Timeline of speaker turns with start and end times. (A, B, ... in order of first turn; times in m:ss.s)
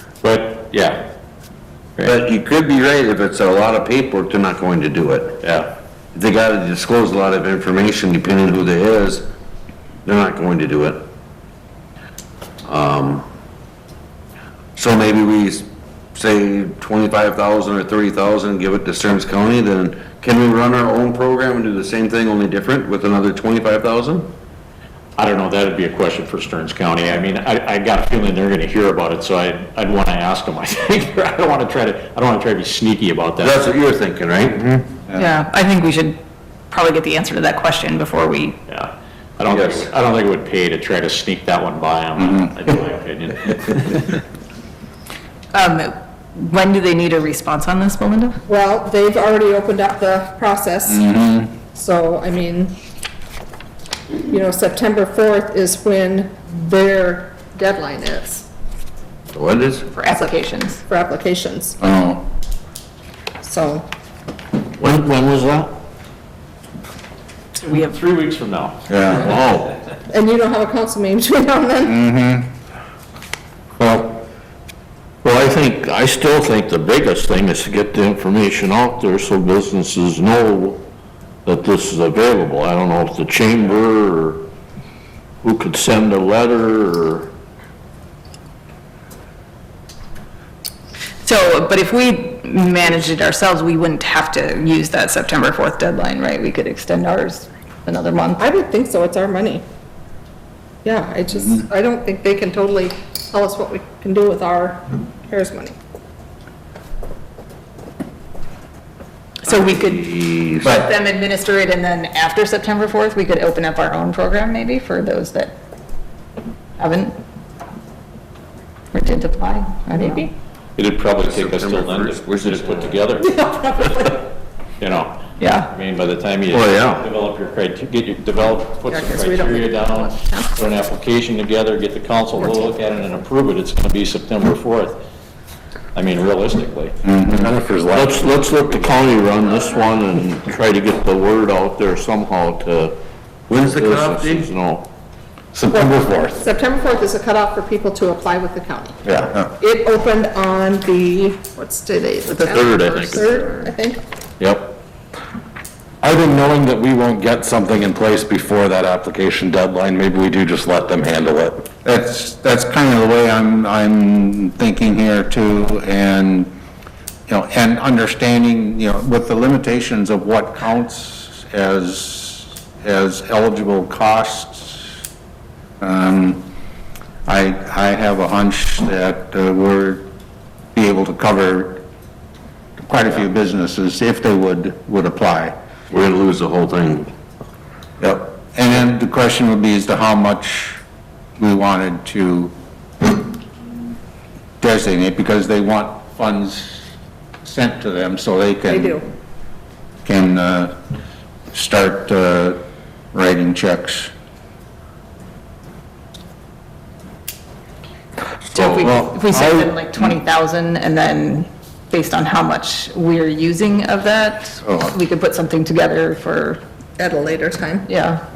0:00.2-0:01.1 A
0:02.0-0:05.4 B
0:05.4-0:05.7 A
0:06.1-0:09.3 B
0:10.0-0:11.1 B
0:12.7-0:13.3 B
0:14.8-0:24.3 B
0:25.2-0:33.7 A
0:33.4-0:34.8 B
0:35.1-0:36.2 C
0:36.7-0:38.6 C
0:38.7-0:44.0 A
0:39.4-0:39.9 B
0:42.2-0:42.5 D
0:45.5-0:48.4 C
0:48.5-0:51.1 E
0:50.9-0:51.6 D
0:51.7-0:52.8 E
0:54.3-0:58.5 E
0:59.3-0:59.9 B
0:59.9-1:00.8 C
1:00.1-1:01.8 E
1:01.8-1:02.2 D
1:03.4-1:03.9 E
1:04.8-1:05.7 F
1:07.6-1:09.4 A
1:08.9-1:09.3 D
1:09.1-1:09.5 B
1:09.3-1:09.6 F
1:10.1-1:12.0 E
1:11.8-1:12.5 D
1:15.2-1:20.8 F
1:21.4-1:24.5 F
1:25.4-1:27.3 F
1:31.2-1:38.5 C
1:38.4-1:39.6 E
1:40.8-1:45.8 E
1:49.5-1:50.1 C
1:49.5-1:50.8 B
1:50.6-1:55.5 C
1:56.8-1:57.2 C
1:58.9-2:00.3 C
2:00.8-2:04.0 A
2:01.2-2:03.0 B
2:03.3-2:04.2 E
2:04.8-2:15.0 A
2:05.4-2:05.7 C
2:06.5-2:07.1 B
2:08.9-2:10.6 E
2:12.4-2:12.7 E
2:15.9-2:17.0 A
2:17.0-2:17.5 D
2:17.2-2:19.1 G
2:17.9-2:23.0 F
2:23.5-2:24.5 B
2:23.6-2:24.9 F
2:25.5-2:26.4 G
2:25.7-2:29.0 E
2:29.0-2:29.4 G
2:29.6-2:34.0 E
2:32.3-2:33.2 F
2:34.4-2:34.8 F
2:36.0-2:41.6 G
2:41.8-2:46.5 D
2:47.3-2:54.9 D
2:55.8-2:56.4 D
2:57.3-3:00.1 D
3:00.7-3:01.8 D
3:02.8-3:05.6 D
3:05.9-3:07.1 B
3:08.0-3:08.3 B
3:08.5-3:10.8 D
3:11.4-3:12.5 D
3:14.6-3:16.9 D
3:17.4-3:19.0 D
3:18.7-3:19.0 E
3:20.0-3:20.8 D
3:21.5-3:22.6 D
3:23.1-3:24.1 D
3:28.5-3:36.6 C
3:28.6-3:29.8 G
3:34.6-3:34.9 D
3:37.0-3:37.9 E
3:37.9-3:38.2 C